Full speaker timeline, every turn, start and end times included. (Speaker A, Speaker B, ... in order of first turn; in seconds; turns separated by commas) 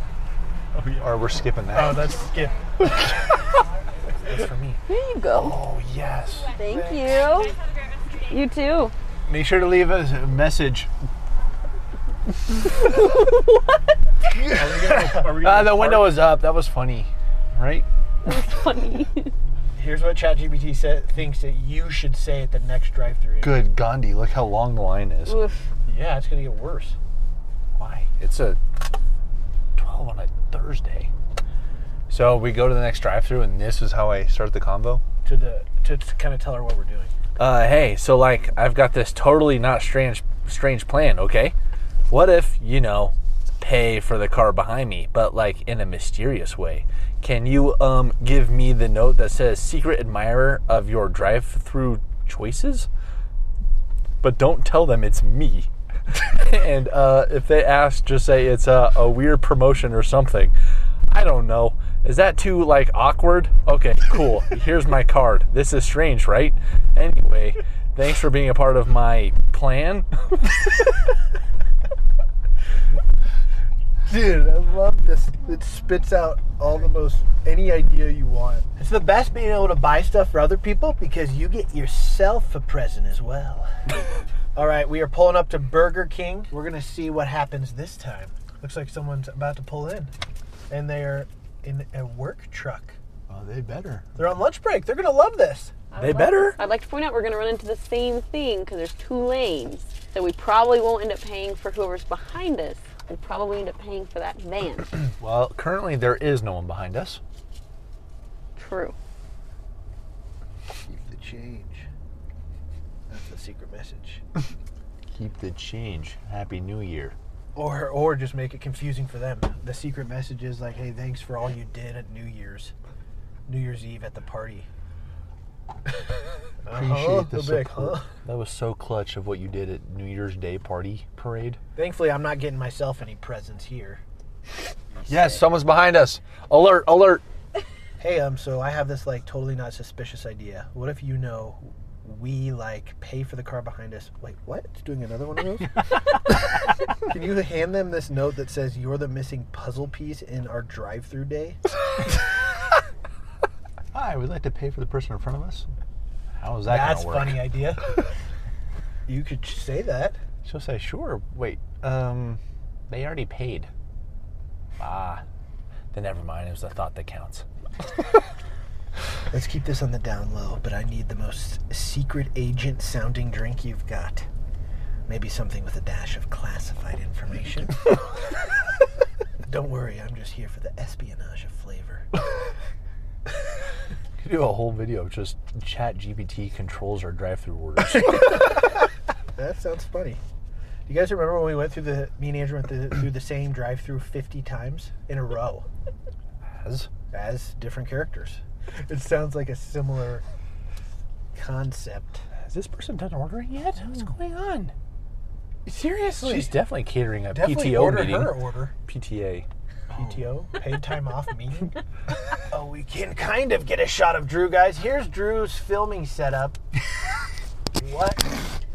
Speaker A: 0.7-1.4, Speaker B: 1.0-2.3, Speaker C: 1.7-2.9, Speaker B: 2.8-3.1, Speaker B: 4.2-4.8, Speaker D: 4.9-5.6, Speaker B: 5.3-6.5, Speaker E: 6.2-8.5, Speaker D: 6.5-7.5, Speaker C: 6.7-7.2, Speaker D: 8.3-8.9, Speaker B: 9.2-10.9, Speaker B: 14.3-17.9, Speaker C: 14.5-15.5, Speaker A: 14.5-16.2, Speaker D: 18.2-19.3, Speaker C: 19.8-23.6, Speaker B: 23.4-25.4, Speaker D: 25.2-25.6, Speaker C: 25.9-26.9, Speaker B: 27.7-28.6, Speaker B: 29.8-31.1, Speaker B: 32.1-35.0, Speaker C: 35.2-37.1, Speaker B: 37.4-41.5, Speaker B: 42.1-52.9, Speaker B: 54.2-60.5, Speaker B: 61.1-70.5, Speaker C: 74.0-90.1, Speaker C: 90.7-93.0, Speaker B: 93.3-94.1, Speaker C: 94.2-95.8, Speaker B: 96.0-96.6, Speaker D: 96.5-105.0, Speaker B: 105.2-107.2, Speaker D: 108.6-108.9, Speaker C: 110.8-111.8, Speaker C: 113.1-114.2, Speaker B: 115.1-117.2, Speaker C: 117.5-122.7, Speaker C: 123.5-124.7, Speaker C: 126.6-128.1, Speaker B: 126.7-131.6, Speaker C: 131.7-134.0, Speaker C: 135.1-135.4, Speaker B: 135.1-137.2, Speaker C: 138.0-146.2, Speaker C: 147.1-151.6, Speaker B: 153.9-155.7, Speaker B: 156.4-157.4, Speaker C: 156.7-157.8, Speaker C: 159.1-160.2, Speaker B: 160.4-163.7, Speaker B: 164.8-165.2, Speaker B: 165.9-167.4, Speaker C: 169.3-174.3, Speaker C: 175.1-177.9, Speaker C: 179.5-182.1, Speaker B: 184.2-188.3, Speaker C: 188.1-188.7, Speaker C: 189.3-190.2, Speaker C: 190.9-195.7, Speaker B: 196.6-196.9, Speaker C: 197.1-200.2, Speaker C: 201.3-202.2, Speaker B: 202.4-204.7, Speaker B: 205.7-209.5, Speaker C: 205.7-206.6, Speaker C: 207.3-208.7, Speaker A: 209.9-210.2, Speaker C: 209.9-211.8, Speaker C: 212.5-216.6, Speaker C: 217.7-218.2